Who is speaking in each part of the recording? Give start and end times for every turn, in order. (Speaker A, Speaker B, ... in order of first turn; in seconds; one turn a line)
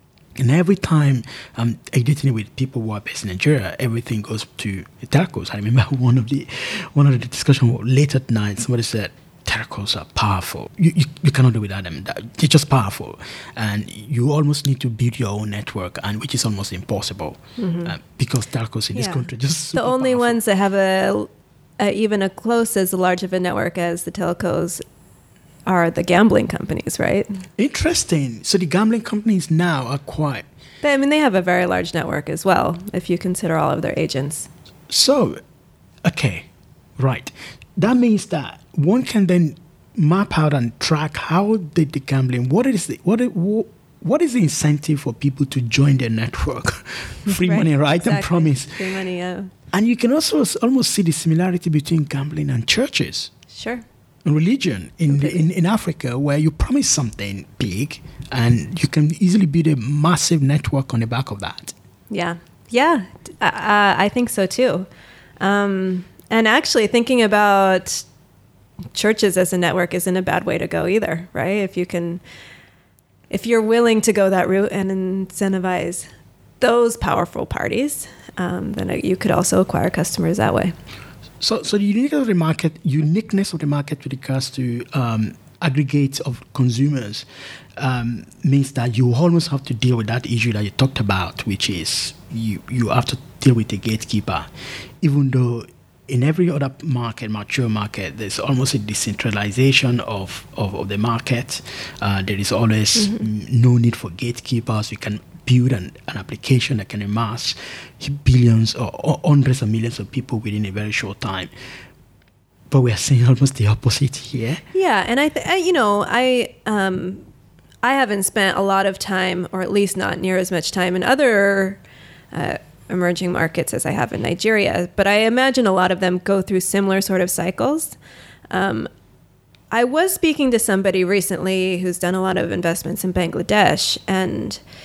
Speaker A: 0.4-20.4
Speaker B: 17.6-17.9
Speaker B: 18.9-24.8
Speaker B: 25.6-27.4
Speaker A: 27.6-30.4
Speaker B: 30.8-34.5
Speaker A: 34.9-35.4
Speaker A: 36.0-36.5
Speaker A: 37.0-48.8
Speaker B: 47.3-49.5
Speaker A: 49.7-53.3
Speaker B: 53.5-53.8
Speaker A: 54.2-61.7
Speaker B: 55.1-55.4
Speaker B: 62.1-64.9
Speaker B: 65.4-68.0
Speaker B: 68.9-72.2
Speaker B: 73.3-76.0
Speaker B: 76.6-80.7
Speaker A: 81.4-87.2
Speaker A: 87.8-94.5
Speaker A: 95.0-111.5
Speaker B: 103.0-103.3
Speaker A: 112.7-114.6
Speaker B: 114.7-117.2
Speaker B: 117.8-121.8
Speaker B: 122.3-128.0
Speaker B: 128.5-128.9
Speaker B: 129.7-134.6